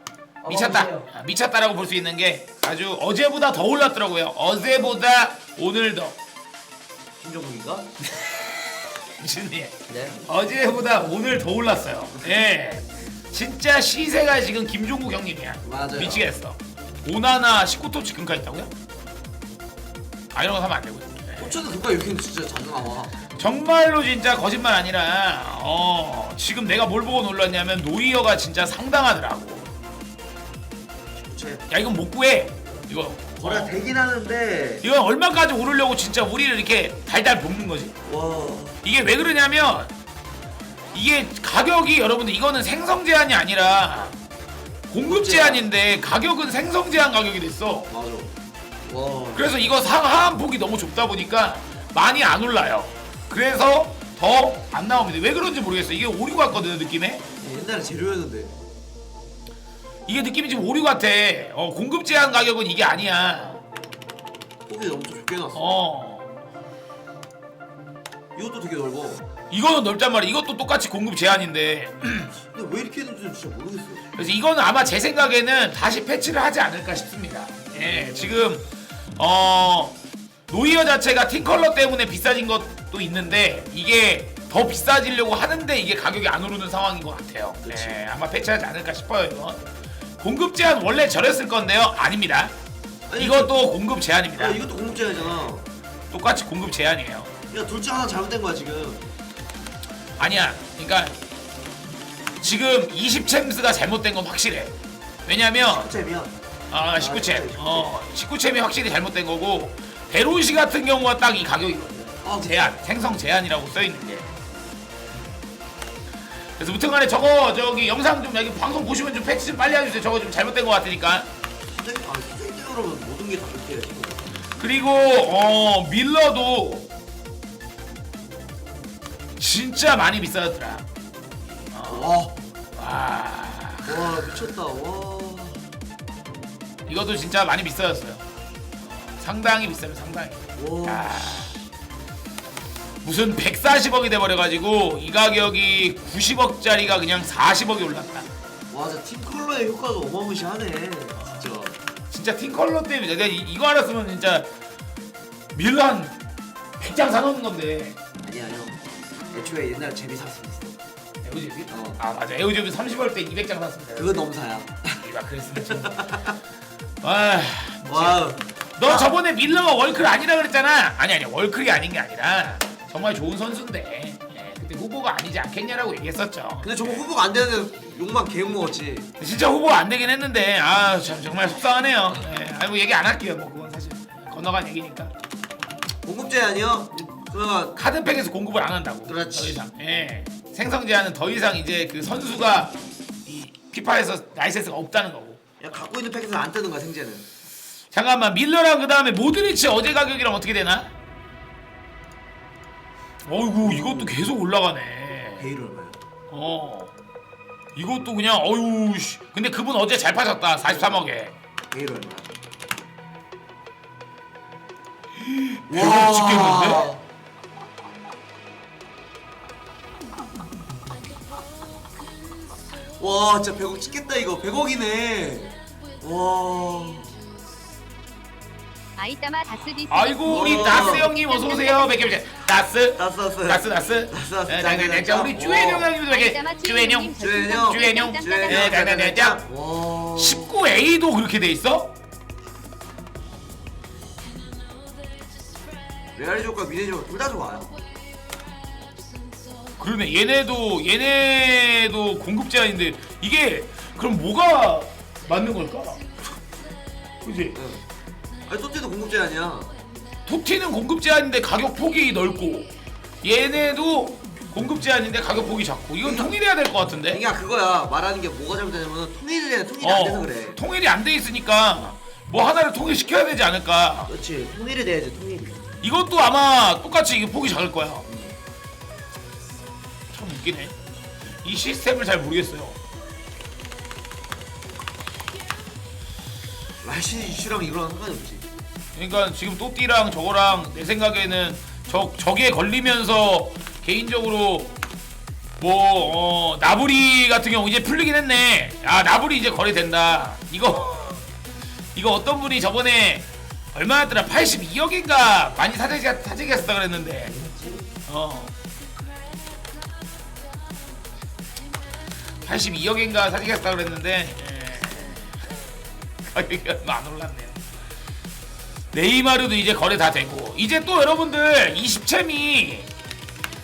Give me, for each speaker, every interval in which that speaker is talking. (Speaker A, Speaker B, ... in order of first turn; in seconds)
Speaker A: 0.4-1.1, 7.2-7.9, 9.9-10.2, 15.6-16.3, 21.4-23.1, 31.1-31.6, 33.4-34.8, 38.0-38.8, 45.0-45.7, 47.9-48.3, 48.9-49.5, 57.4-58.6, 64.7-65.6, 68.3-69.2, 72.5-74.1, 87.6-88.0, 93.1-93.6, 94.4-95.7, 97.5-99.0, 105.6-106.3, 107.0-107.9, 112.2-112.7, 121.7-124.4, 131.9-132.3, 133.8-135.6, 140.6-141.1, 148.7-151.8, 158.2-160.7, 161.7-162.0, 163.9-165.0, 165.6-166.3, 167.9-169.2, 176.6-179.1, 186.0-187.8, 189.0-189.6, 195.6-197.2, 203.6-204.2, 205.4-206.0, 211.7-212.3, 215.7-217.0, 223.0-227.2, 230.2-231.1, 233.0-235.9, 237.2-240.6, 246.1-247.8, 257.5-257.8, 258.4-259.8, 266.0-266.3, 267.1-270.6, 274.1-275.7, 278.1-278.4, 286.8-288.5, 307.2-307.9
Speaker B: 0.5-6.2, 9.2-18.7, 20.3-21.5, 23.3-29.7, 31.7-33.8, 34.8-37.9, 38.8-39.9, 40.9-44.1, 44.9-47.9, 49.3-57.2, 60.1-63.6, 65.5-66.3, 69.5-72.4, 74.1-80.0, 80.5-89.6, 90.2-92.5, 93.2-94.6, 96.1-97.3, 100.2-101.2, 102.4-104.7, 105.2-105.9, 106.7-114.3, 116.6-121.3, 124.6-126.9, 129.4-130.8, 131.7-132.1, 132.8-134.4, 136.9-138.2, 138.8-141.6, 143.0-148.3, 152.1-154.5, 155.5-156.2, 156.8-157.9, 161.2-164.2, 164.9-166.2, 167.0-177.0, 179.2-185.1, 187.8-195.4, 197.9-200.9, 203.2-205.5, 206.3-206.9, 207.7-211.3, 215.2-216.9, 229.9-239.4, 240.1-241.9, 249.8-256.0, 257.2-257.6, 260.2-262.7, 263.2-267.2, 269.8-274.1, 275.8-278.1, 280.1-280.7, 281.4-282.8, 288.9-294.7, 295.6-301.2, 301.9-307.3, 308.1-308.5, 312.4-315.4, 316.3-317.6, 318.9-322.9
Speaker C: 229.0-232.1, 236.1-238.7